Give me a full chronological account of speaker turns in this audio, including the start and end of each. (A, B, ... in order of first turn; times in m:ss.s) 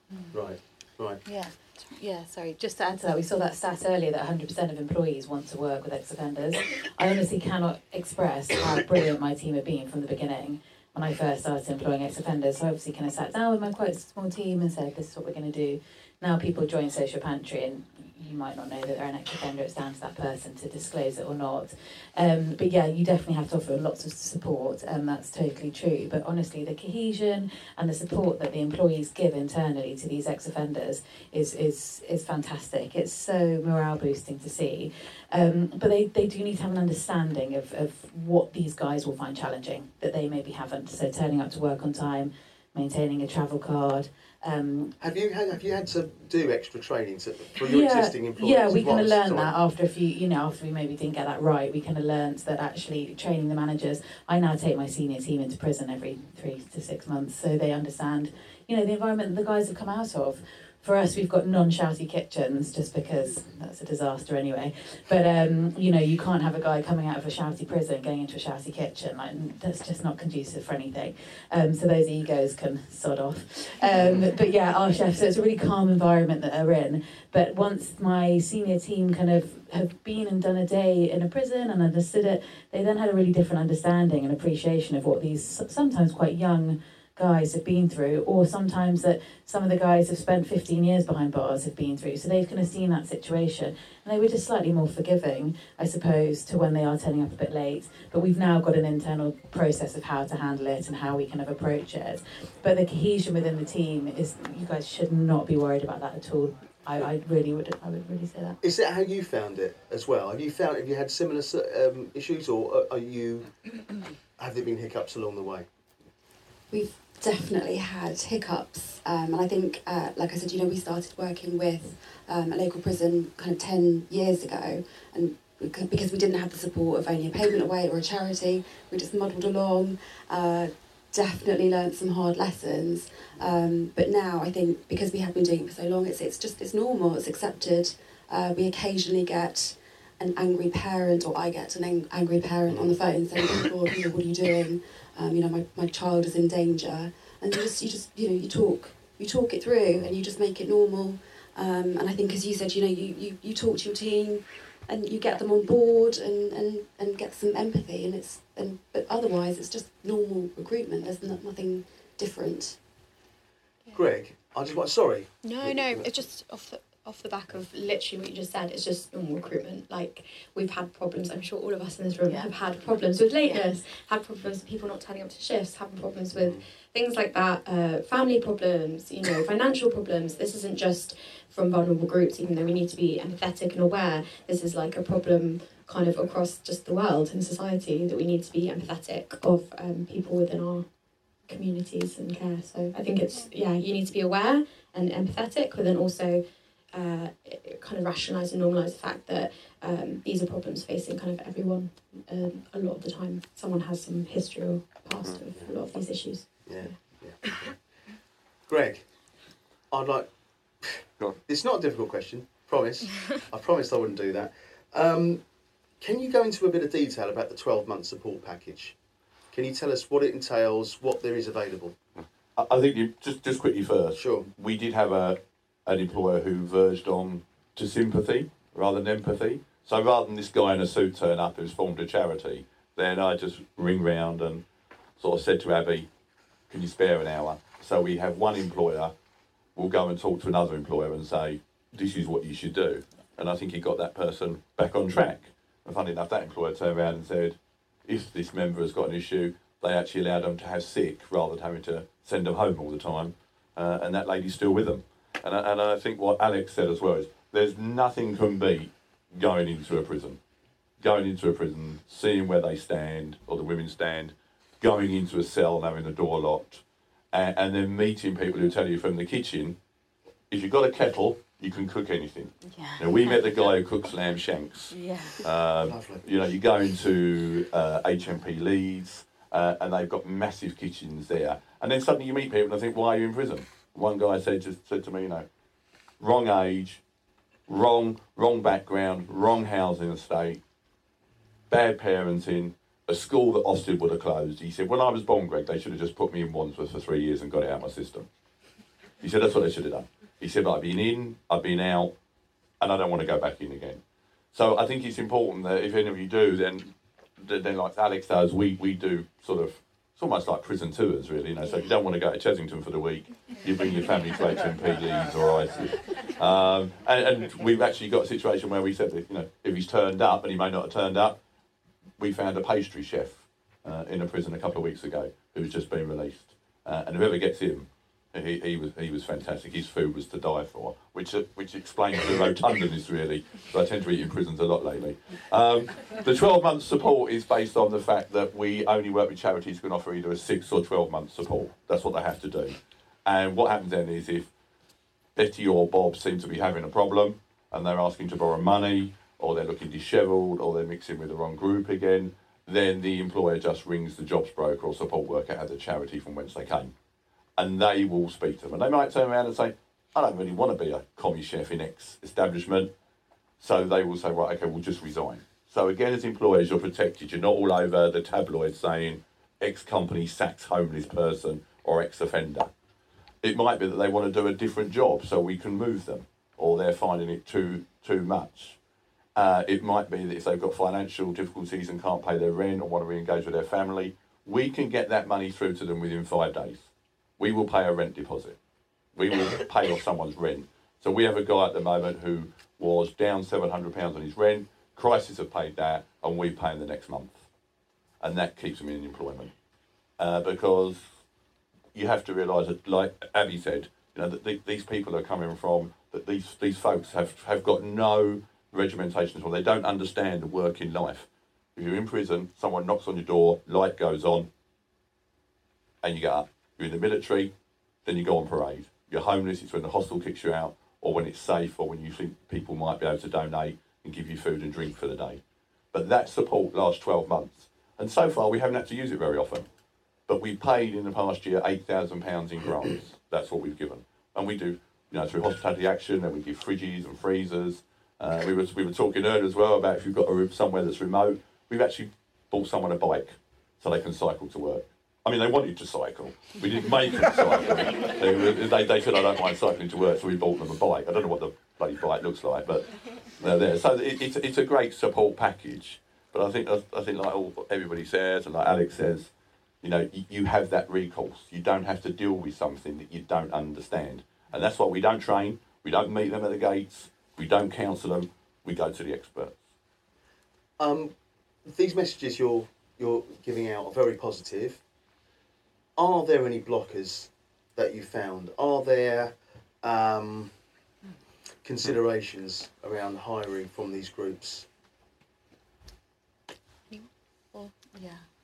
0:00.3-0:01.2 A
0:01.3-0:45.0 B
0:45.0-0:49.6 A
0:47.6-1:48.6 B
1:14.0-1:14.3 A
1:48.6-1:53.5 A
1:54.4-1:55.7 A
1:56.7-2:42.8 C
2:22.7-2:23.0 A
2:43.9-2:46.2 A
2:45.4-3:10.9 D
2:56.3-2:56.6 A
3:11.4-3:26.5 D
3:26.6-3:27.7 A
3:28.7-3:29.0 A
3:29.9-3:30.3 A
3:30.8-3:35.4 A
3:36.0-3:38.9 A
3:39.5-3:41.9 A
3:42.6-3:54.6 E
3:44.2-3:44.4 A
3:55.2-3:56.1 E
3:56.7-3:59.1 E
3:59.8-4:20.4 E
4:21.0-4:29.8 E
4:30.5-4:45.5 E
4:34.9-4:35.3 B
4:35.8-4:36.3 A
4:46.2-4:47.0 E
4:47.7-4:50.6 E
4:51.7-4:58.3 E
4:59.2-5:02.1 E
5:02.8-5:04.0 E
5:04.5-5:21.4 E
5:11.6-5:11.9 D
5:22.2-5:44.5 E
5:45.4-5:56.9 E
5:57.6-6:02.9 E
6:03.6-6:12.7 E
6:13.4-6:18.8 E
6:19.4-6:28.6 E
6:29.2-6:37.4 E
6:38.2-6:39.5 E
6:40.2-6:41.0 E
6:41.9-6:54.5 E
6:56.0-6:57.5 E
6:58.0-7:05.4 E
7:05.9-7:09.7 E
7:10.3-7:39.3 E
7:39.8-7:49.6 E
7:50.8-7:51.1 A
7:51.7-7:54.8 A
7:56.0-8:00.5 A
8:01.6-8:04.7 A